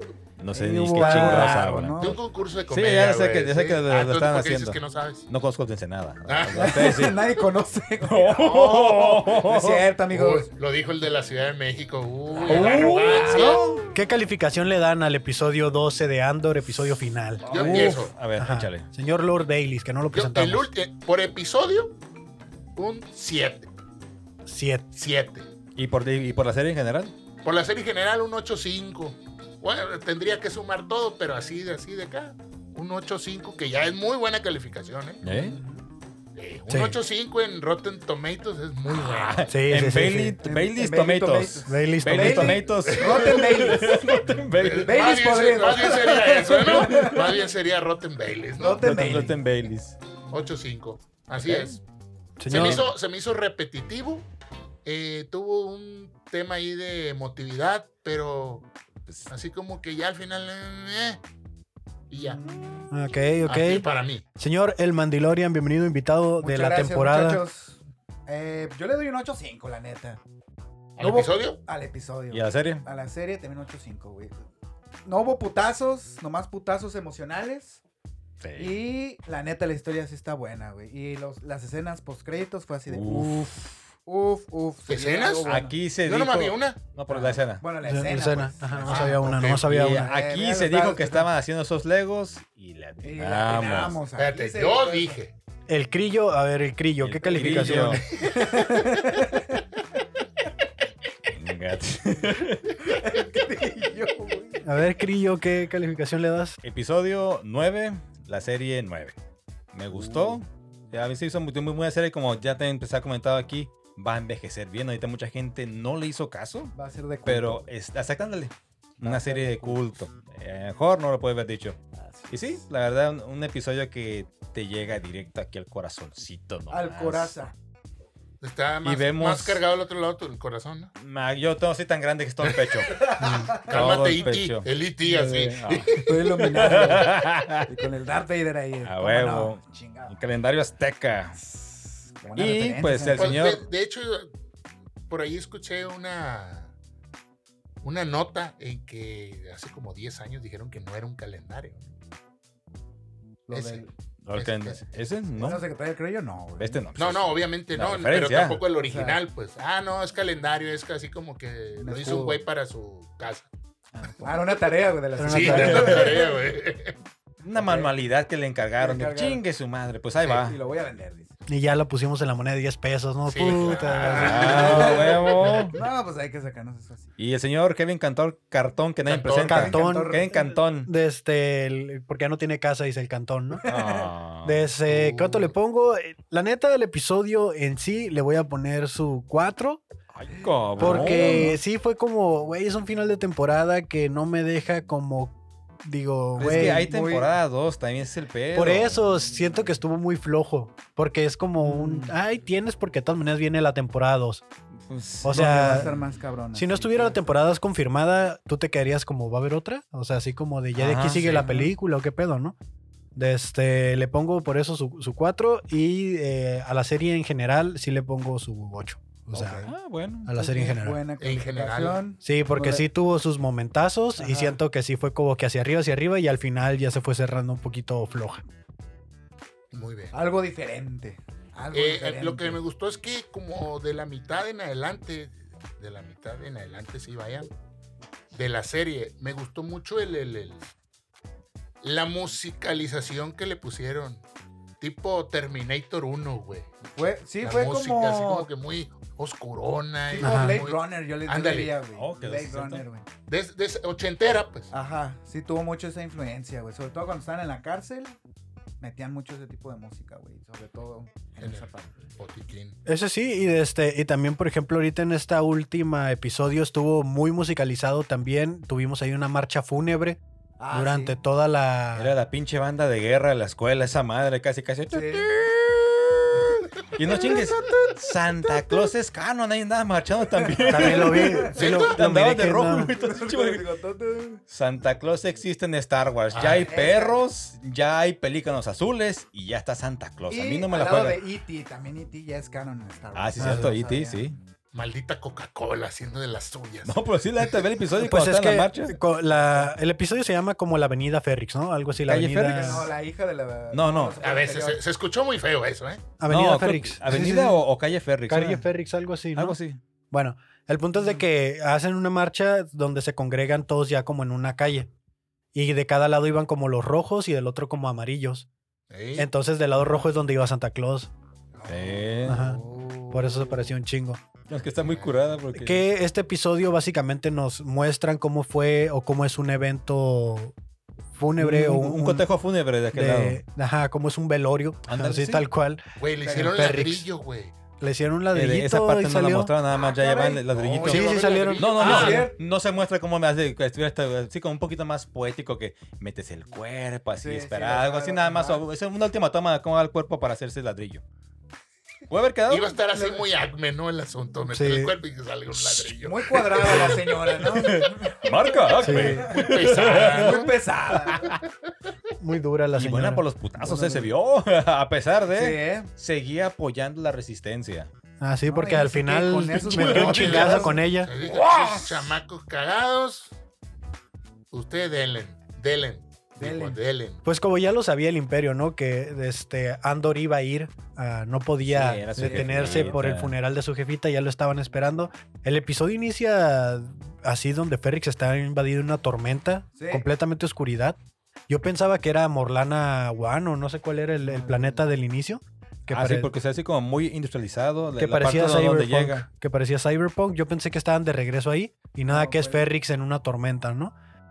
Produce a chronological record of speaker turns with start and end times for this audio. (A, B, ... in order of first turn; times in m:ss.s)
0:00.4-0:02.1 A
0:00.5-0:02.2 B
0:01.0-0:01.6 C
0:02.0-0:05.2 D
0:02.7-0:07.2 A
0:06.2-0:06.8 D
0:06.5-0:10.5 B
0:08.1-0:09.8 A
0:08.3-0:08.7 D
0:10.1-0:13.6 D
0:12.3-0:13.8 B
0:12.5-0:13.9 A
0:12.5-0:12.9 C
0:13.9-0:20.7 C
0:17.4-0:18.9 A
0:17.4-0:18.1 D
0:17.5-0:17.8 B
0:20.1-0:21.9 D
0:22.8-0:23.7 D
0:24.4-0:24.8 C
0:24.9-0:25.5 D
0:25.8-0:27.1 A
0:27.4-0:35.2 D
0:35.2-0:35.6 A
0:35.3-0:35.9 B
0:36.4-0:39.5 D
0:36.7-0:37.0 C
0:38.8-0:45.1 A
0:39.5-0:40.4 C
0:40.4-0:44.1 B
0:41.7-0:42.6 C
0:42.8-0:43.8 D
0:44.5-0:48.8 D
0:44.8-0:47.4 B
0:48.6-0:49.4 B
0:48.8-0:50.0 A
0:50.3-0:51.8 D
0:51.4-0:51.8 A
0:52.4-0:52.9 C
0:52.5-0:54.2 D
0:52.5-0:52.8 A
0:54.8-0:58.7 D
0:59.3-1:01.2 D
1:02.1-1:02.4 D
1:02.1-1:02.9 B
1:02.9-1:03.8 C
1:03.4-1:04.2 D
1:04.4-1:07.4 C
1:06.4-1:10.2 B
1:11.0-1:11.6 D
1:11.0-1:14.4 B
1:12.3-1:12.8 A
1:15.0-1:17.8 B
1:18.4-1:18.8 A
1:18.6-1:25.7 B
1:22.9-1:23.7 A
1:24.9-1:26.8 D
1:25.5-1:27.6 A
1:27.1-1:31.3 B
1:27.8-1:30.0 C
1:28.8-1:29.6 D
1:29.5-1:34.0 A
1:33.0-1:35.2 B
1:34.2-1:35.3 D
1:35.7-1:38.4 C
1:37.0-1:38.0 A
1:37.4-1:39.6 B
1:41.3-1:42.8 A
1:42.8-1:44.7 B
1:44.6-1:46.6 C
1:46.6-1:49.2 A
1:49.7-1:56.7 A
1:49.9-1:50.4 B
1:56.7-1:57.7 B
1:57.2-2:01.8 A
1:59.0-1:59.9 B
2:01.9-2:02.6 B
2:02.3-2:07.3 A
2:06.7-2:07.5 B
2:08.4-2:10.9 D
2:08.8-2:09.6 A
2:11.0-2:17.8 A
2:12.5-2:12.8 D
2:12.9-2:13.8 B
2:13.2-2:13.5 C
2:13.5-2:16.8 D
2:15.1-2:20.2 B
2:18.8-2:21.4 A
2:21.4-2:23.4 B
2:22.3-2:23.6 A
2:23.2-2:24.3 D
2:25.1-2:26.7 D
2:27.8-2:31.9 D
2:33.5-2:33.9 B
2:33.5-2:34.8 D
2:34.2-2:35.6 A
2:35.4-2:36.8 B
2:36.6-2:38.6 A
2:37.0-2:43.5 D
2:38.8-2:39.2 B
2:41.8-2:42.4 B
2:43.9-2:44.4 A
2:44.2-2:46.3 B
2:45.2-2:46.0 C
2:45.3-2:46.9 D
2:45.5-2:46.2 A
2:47.4-2:50.6 A
2:47.5-2:47.9 B
2:48.8-2:49.4 B
2:50.2-2:51.4 B
2:51.5-2:54.8 C
2:53.3-2:55.6 D
2:54.0-2:55.8 A
2:54.1-2:57.2 B
2:57.2-3:00.9 A
2:59.0-2:59.7 D
2:59.4-3:03.7 C
2:59.5-3:00.4 B
3:03.6-3:04.1 B
3:03.7-3:05.5 A
3:04.4-3:09.8 C
3:10.1-3:11.5 A
3:10.3-3:11.6 B
3:10.8-3:16.9 C
3:16.4-3:19.0 A
3:16.4-3:17.3 B
3:18.5-3:24.4 C
3:21.6-3:22.2 B
3:24.9-3:25.9 A
3:25.2-3:26.0 C
3:25.2-3:27.2 B
3:26.5-3:32.6 C
3:30.7-3:31.4 A
3:31.1-3:31.6 D
3:33.2-3:39.6 C
3:39.3-3:39.7 B
3:39.6-3:40.4 A
3:40.2-3:41.0 C
3:40.4-3:42.8 B
3:41.2-3:42.0 D
3:42.2-3:48.4 C
3:44.2-3:44.6 B
3:49.7-3:50.2 D
3:50.1-3:52.6 B
3:51.7-3:57.5 D
3:58.3-4:00.7 D
4:01.8-4:04.2 D
4:04.8-4:11.7 D
4:06.9-4:08.5 B
4:10.1-4:13.1 B
4:10.2-4:10.6 C
4:11.9-4:12.8 A
4:13.3-4:14.7 D
4:14.7-4:18.2 B
4:18.8-4:22.1 B
4:21.4-4:22.8 D
4:22.8-4:30.2 C
4:30.6-4:31.2 B
4:30.7-4:32.1 C
4:31.9-4:43.6 A
4:34.9-4:35.3 B
4:37.2-4:37.9 B
4:40.4-4:41.6 B
4:40.7-4:42.9 C
4:41.5-4:42.0 D
4:42.9-4:44.4 B
4:44.5-4:51.2 A
4:46.3-4:46.7 D
4:46.4-4:47.2 B
4:50.3-4:54.3 B
4:53.1-4:54.4 A
4:53.4-4:53.7 C
4:54.7-4:57.0 D
4:56.8-4:59.0 A
4:58.0-5:02.9 C
5:02.0-5:02.9 A
5:02.4-5:04.8 B
5:03.7-5:04.2 A
5:04.2-5:06.0 D
5:06.2-5:07.6 C
5:06.3-5:08.7 A
5:08.3-5:09.6 C
5:09.3-5:09.8 A
5:10.1-5:14.9 C
5:10.9-5:11.2 B
5:15.5-5:18.5 C
5:18.9-5:19.3 D
5:19.2-5:21.1 C
5:19.8-5:20.1 B
5:21.6-5:23.7 B
5:21.6-5:22.4 A
5:22.3-5:22.6 C
5:23.1-5:24.2 C
5:24.5-5:25.8 A
5:24.8-5:25.2 D
5:25.5-5:30.5 C
5:31.1-5:32.2 C
5:31.4-5:33.4 A
5:32.9-5:37.1 C
5:34.8-5:35.5 A
5:36.0-5:37.5 D
5:36.2-5:36.8 B
5:37.8-5:39.5 C
5:38.3-5:51.0 A
5:39.7-5:42.4 B
5:40.8-5:42.3 D
5:40.8-5:42.2 C
5:47.2-5:48.6 B
5:52.1-5:52.7 A
5:52.5-5:57.0 D
5:52.9-5:53.2 B
5:54.5-5:54.9 C
5:55.6-5:55.9 A
5:56.0-6:01.3 B
5:56.6-6:00.4 A
5:58.8-5:59.2 C
5:59.2-6:00.5 D
6:01.1-6:01.4 A
6:02.2-6:03.2 C
6:02.7-6:07.9 A
6:03.6-6:04.1 B
6:05.3-6:05.9 B
6:08.2-6:11.1 C
6:08.4-6:10.8 B
6:09.5-6:10.6 A
6:10.1-6:13.3 D
6:11.2-6:12.2 A
6:14.5-6:17.2 D
6:16.4-6:16.8 B
6:17.2-6:31.0 C
6:21.6-6:23.3 A
6:22.2-6:23.0 B
6:29.8-6:30.0 B
6:31.5-6:36.3 C
6:34.2-6:34.9 B
6:35.9-6:39.2 A
6:37.9-6:43.9 C
6:42.0-6:42.7 B